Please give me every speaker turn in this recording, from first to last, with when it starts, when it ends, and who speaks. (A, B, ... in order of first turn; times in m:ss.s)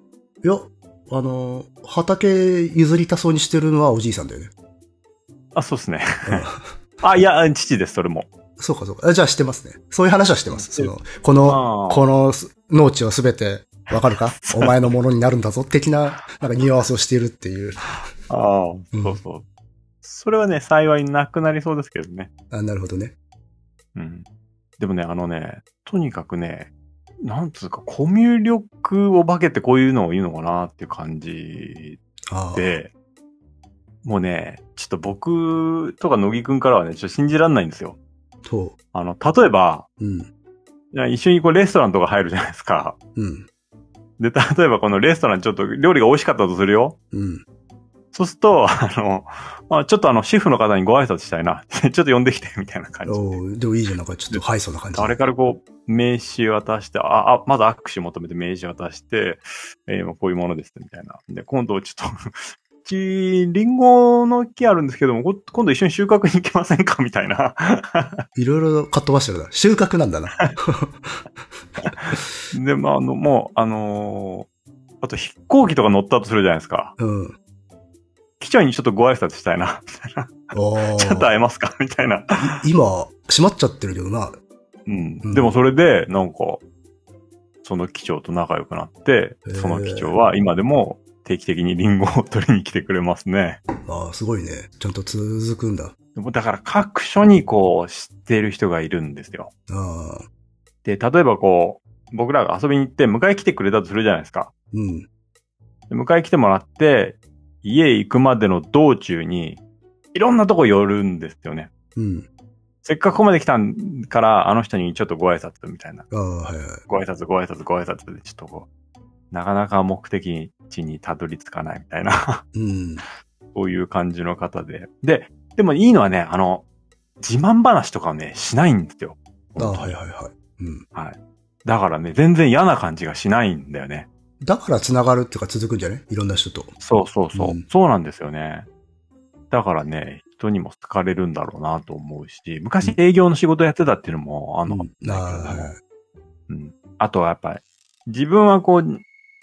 0:00.4-0:04.5 A
0:05.5-0:06.5 B
0:06.3-0:06.7 A
0:07.0-0:08.3 B
0:08.6-0:18.0 A
0:10.5-0:10.9 B
0:11.4-0:12.0 B
0:14.3-0:14.9 B
0:18.3-0:19.4 B
0:18.9-0:19.2 A
0:20.0-0:22.3 B
0:22.5-0:23.2 A
0:24.0-0:24.3 B
0:24.8-0:26.7 B
0:27.2-0:32.0 B
0:32.3-0:32.8 A
0:32.6-0:32.9 B
0:34.0-0:38.0 B
0:38.4-0:38.8 A
0:38.9-0:39.9 B
0:40.0-0:40.3 A
0:40.9-0:43.0 B
0:43.2-0:43.5 A
0:44.2-0:47.0 B
0:47.1-0:47.4 A
0:48.1-0:53.4 B
0:53.1-0:55.2 A
0:55.0-1:08.2 B
1:08.4-1:11.2 A
1:11.8-1:14.5 B
1:15.0-1:16.9 B
1:17.0-1:17.4 A
1:18.4-1:22.4 B
1:20.5-1:21.3 A
1:22.4-1:24.4 A
1:24.9-1:26.6 B
1:25.2-1:25.5 A
1:27.6-1:33.6 B
1:29.5-1:30.1 A
1:33.8-1:35.9 A
1:36.2-1:39.5 B
1:39.7-1:40.3 A
1:40.8-1:44.5 B
1:44.7-1:45.1 A
1:45.9-1:49.6 B
1:50.1-1:51.7 B
1:52.0-1:52.3 A
1:52.8-1:56.0 B
1:56.1-1:56.8 A
1:56.9-1:58.7 B
1:59.3-2:02.4 B
2:02.5-2:03.0 A
2:03.5-2:06.6 B
2:07.2-2:09.9 B
2:09.6-2:10.8 A
2:10.9-2:14.1 B
2:14.4-2:16.7 A
2:16.8-2:18.7 B
2:17.3-2:17.6 A
2:19.5-2:25.7 B
2:24.7-2:25.8 A
2:26.5-2:29.0 B